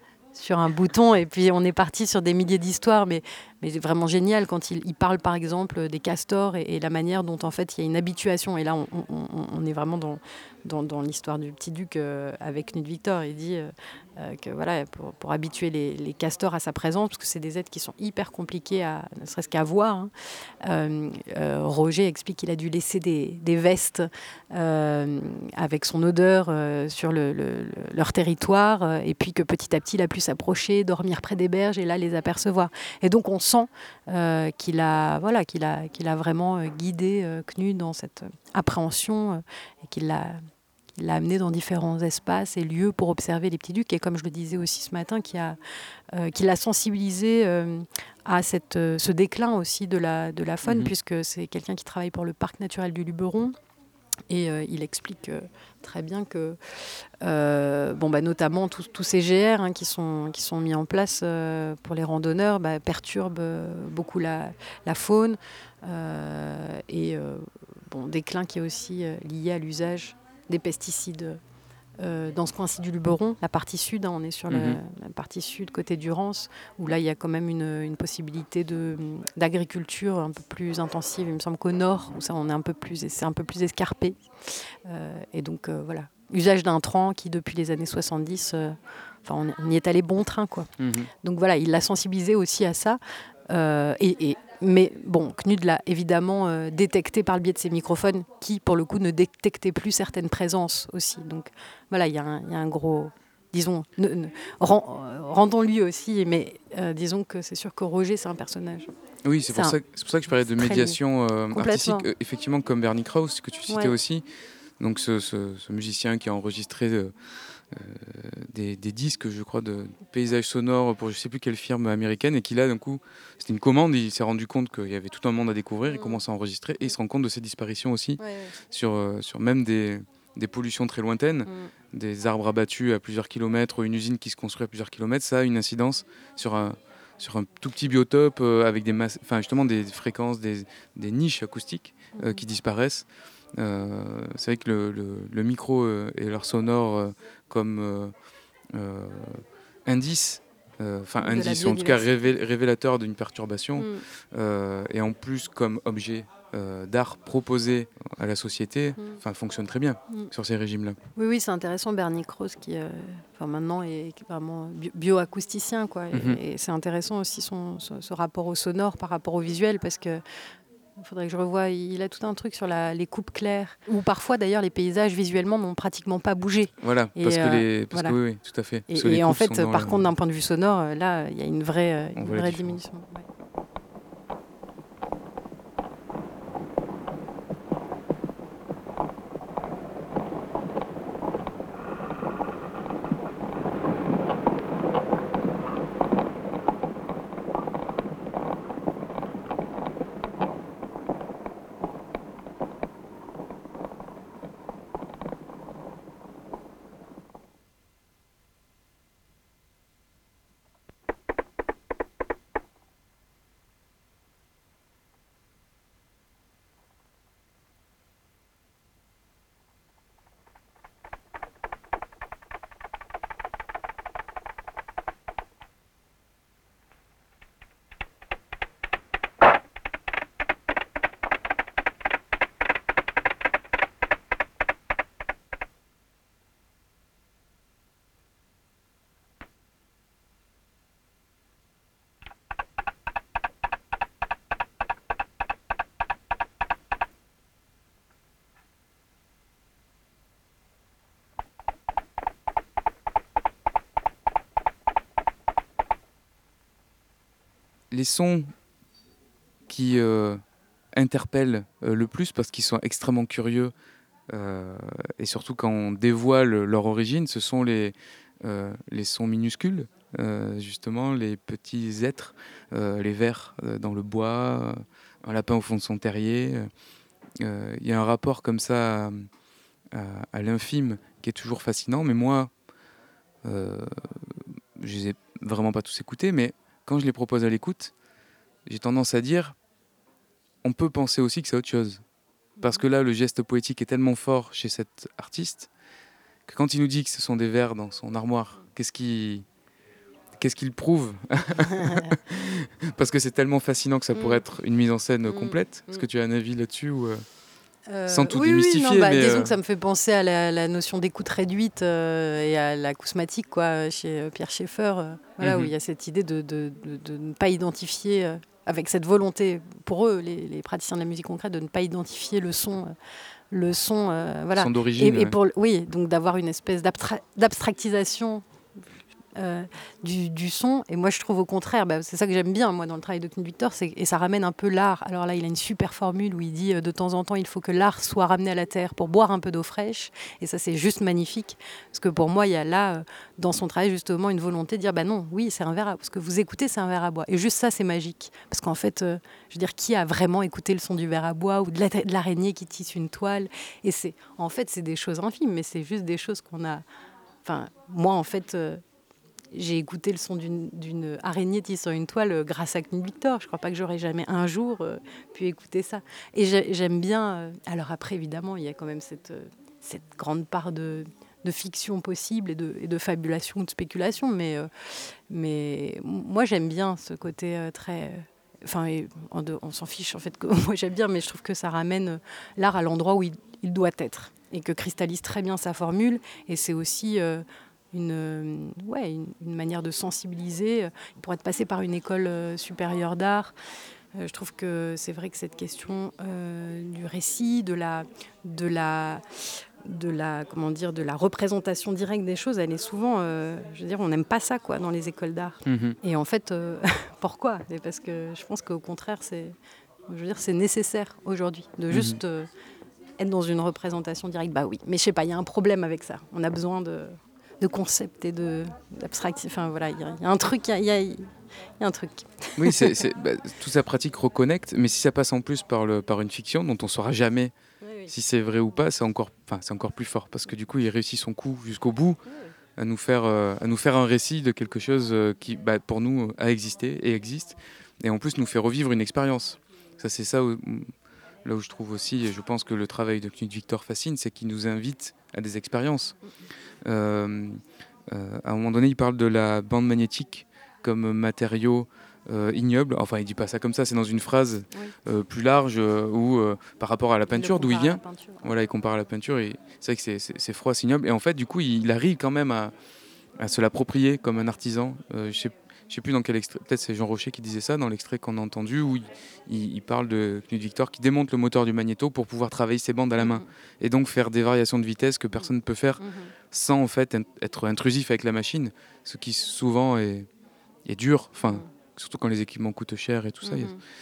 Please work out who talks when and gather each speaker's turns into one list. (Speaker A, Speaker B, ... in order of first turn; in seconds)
Speaker A: 0.3-20.1, 20.6-40.4, 41.0-45.6, 46.1-53.5, 54.3-56.6, 57.2-71.4, 72.0-90.7, 91.2-108.9, 109.5-109.8, 110.5-111.0, 111.5-112.1, 113.7-113.9, 125.9-126.2, 128.2-128.6, 131.5-131.7, 142.2-142.4, 151.2-152.1, 153.8-154.0, 161.2-170.2, 171.0-178.2, 178.9-183.3, 292.6-292.9, 301.6-302.1, 304.1-304.4, 305.3-306.1, 307.9-322.9, 323.5-328.4, 329.4-356.8, 357.4-358.8, 359.5-374.7, 375.3-393.5, 394.2-399.2, 399.8-409.6, 410.1-412.5, 413.2-422.9, 427.8-428.1, 457.3-458.5, 473.2-473.5, 475.4-476.3, 483.4-483.8
Speaker B: 50.6-50.9, 74.5-74.8, 90.8-91.1, 109.2-114.3, 114.8-117.1, 117.7-148.1, 148.7-161.0, 166.1-166.4, 176.8-180.1, 182.2-182.8, 257.9-258.5, 259.7-260.4, 260.9-263.7, 264.3-276.7, 277.4-279.3, 279.9-282.5, 283.4-287.9, 288.7-289.6, 290.6-292.0, 292.6-295.7, 296.5-299.5, 300.4-307.2, 308.1-309.5, 315.4-315.7, 324.6-325.4, 405.7-406.0, 411.9-412.2, 422.6-427.6, 428.1-432.2, 432.8-440.9, 441.4-446.2, 446.8-462.7, 463.4-480.3, 480.9-483.8